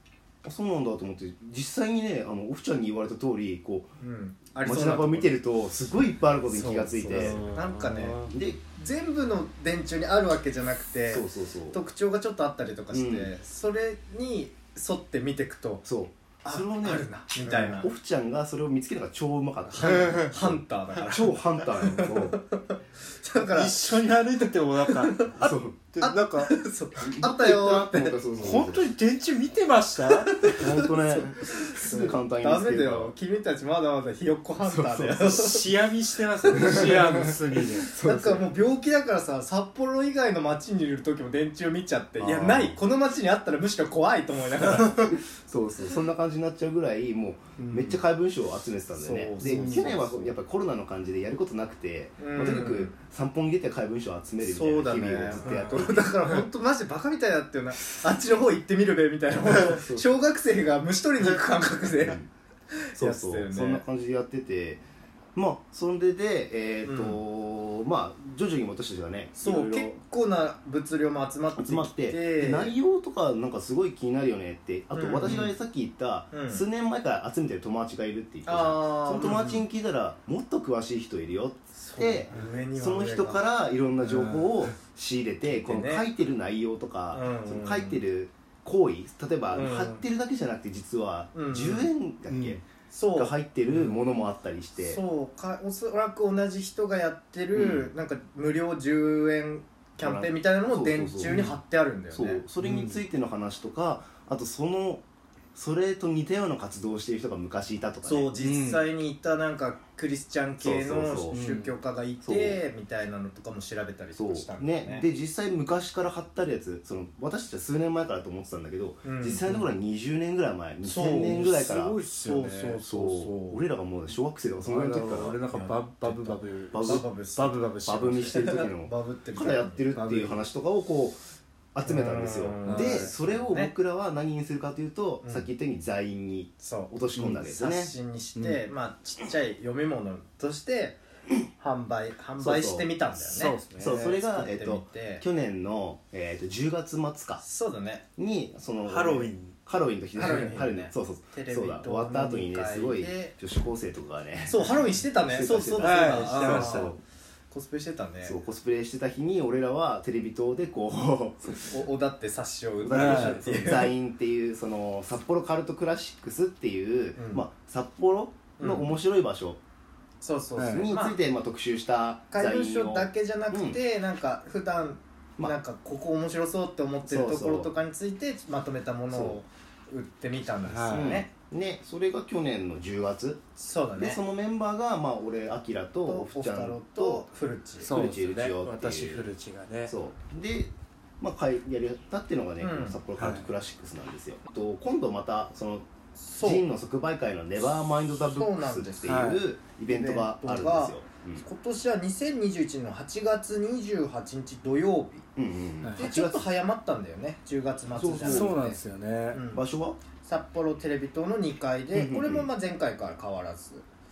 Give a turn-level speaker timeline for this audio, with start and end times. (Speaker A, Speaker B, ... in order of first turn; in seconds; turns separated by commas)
Speaker A: 0.4-3.9, Speaker B: 4.0-5.3, Speaker A: 4.6-7.5, Speaker B: 6.5-15.8, Speaker C: 7.1-8.3, Speaker A: 8.3-8.6, Speaker A: 11.1-11.8, Speaker A: 12.9-13.3, Speaker A: 15.8-20.6, Speaker B: 16.4-17.9, Speaker B: 19.7-24.0, Speaker C: 19.8-20.3, Speaker A: 21.1-22.4, Speaker C: 23.4-26.5, Speaker B: 24.8-25.4, Speaker A: 25.4-25.8, Speaker B: 26.0-28.2, Speaker A: 27.0-28.9, Speaker C: 28.4-30.5, Speaker B: 30.1-35.7, Speaker A: 30.4-33.1, Speaker A: 34.6-35.4, Speaker C: 35.4-37.9, Speaker B: 36.5-37.3, Speaker A: 36.5-37.3, Speaker A: 37.8-38.5, Speaker B: 37.8-45.2, Speaker A: 42.2-42.8, Speaker A: 44.8-56.1, Speaker B: 47.6-48.0, Speaker B: 48.9-50.2, Speaker C: 49.4-50.3, Speaker B: 52.2-52.9, Speaker B: 54.4-62.2, Speaker C: 55.4-55.8, Speaker A: 59.6-60.1, Speaker A: 62.0-62.3, Speaker B: 62.9-63.8, Speaker A: 63.0-64.8, Speaker A: 65.3-69.9, Speaker B: 66.8-67.2, Speaker B: 69.4-72.8, Speaker C: 69.5-69.8, Speaker A: 71.6-92.6, Speaker B: 74.9-75.5, Speaker B: 76.3-76.7, Speaker B: 78.5-79.7, Speaker B: 81.8-83.4, Speaker C: 84.0-84.7, Speaker B: 85.4-86.1, Speaker B: 87.1-88.0, Speaker B: 89.5-90.0, Speaker B: 91.3-91.9, Speaker C: 92.3-92.6, Speaker B: 92.9-93.4, Speaker A: 93.2-95.0, Speaker C: 93.7-93.9, Speaker B: 94.8-102.4, Speaker A: 97.5-97.9, Speaker A: 100.0-101.5, Speaker C: 101.2-101.6, Speaker A: 102.1-105.0, Speaker C: 102.6-103.0, Speaker A: 105.5-108.3, Speaker B: 108.0-115.1, Speaker C: 108.4-108.9, Speaker A: 110.6-111.4, Speaker C: 111.3-111.8, Speaker A: 112.2-112.6, Speaker A: 114.2-122.0, Speaker B: 119.0-119.6, Speaker B: 120.8-121.4, Speaker C: 121.2-123.5, Speaker B: 122.2-123.6, Speaker A: 122.8-125.6, Speaker C: 124.6-128.4, Speaker B: 125.5-129.8, Speaker A: 126.7-127.1, Speaker A: 127.8-131.2, Speaker C: 129.9-130.4, Speaker A: 131.8-137.9, Speaker B: 131.9-133.7, Speaker C: 132.7-133.1, Speaker B: 135.2-135.5, Speaker B: 136.6-141.0, Speaker C: 137.2-137.4, Speaker B: 141.6-145.2, Speaker A: 142.4-142.9, Speaker C: 143.2-144.2, Speaker A: 143.8-147.4, Speaker B: 147.4-148.1, Speaker A: 148.2-154.7, Speaker C: 148.8-149.6, Speaker B: 150.2-153.3, Speaker C: 150.2-150.7, Speaker B: 154.5-157.0, Speaker A: 155.3-157.0, Speaker C: 155.8-157.0, Speaker B: 157.5-158.4, Speaker A: 158.2-161.8, Speaker B: 161.7-163.9, Speaker A: 162.8-169.6, Speaker C: 162.9-163.4, Speaker B: 167.2-167.4, Speaker B: 168.6-168.9, Speaker B: 170.2-171.2, Speaker C: 170.6-170.9, Speaker A: 170.7-173.8, Speaker B: 172.3-181.3, Speaker A: 177.1-177.7, Speaker A: 179.1-179.4, Speaker C: 180.7-181.2, Speaker A: 180.9-183.4, Speaker B: 183.6-184.2, Speaker A: 184.0-187.3, Speaker B: 186.1-188.1, Speaker C: 187.8-189.9, Speaker A: 187.9-189.3, Speaker A: 189.9-195.9, Speaker B: 192.6-193.0, Speaker C: 193.2-193.5, Speaker B: 196.2-196.7, Speaker A: 196.4-201.4, Speaker B: 198.2-205.3, Speaker C: 199.1-199.4, Speaker A: 205.4-206.5, Speaker B: 206.0-208.8, Speaker A: 207.9-208.5, Speaker C: 208.2-209.4, Speaker B: 209.3-209.6, Speaker A: 209.5-210.0, Speaker B: 210.2-213.8, Speaker A: 211.9-212.5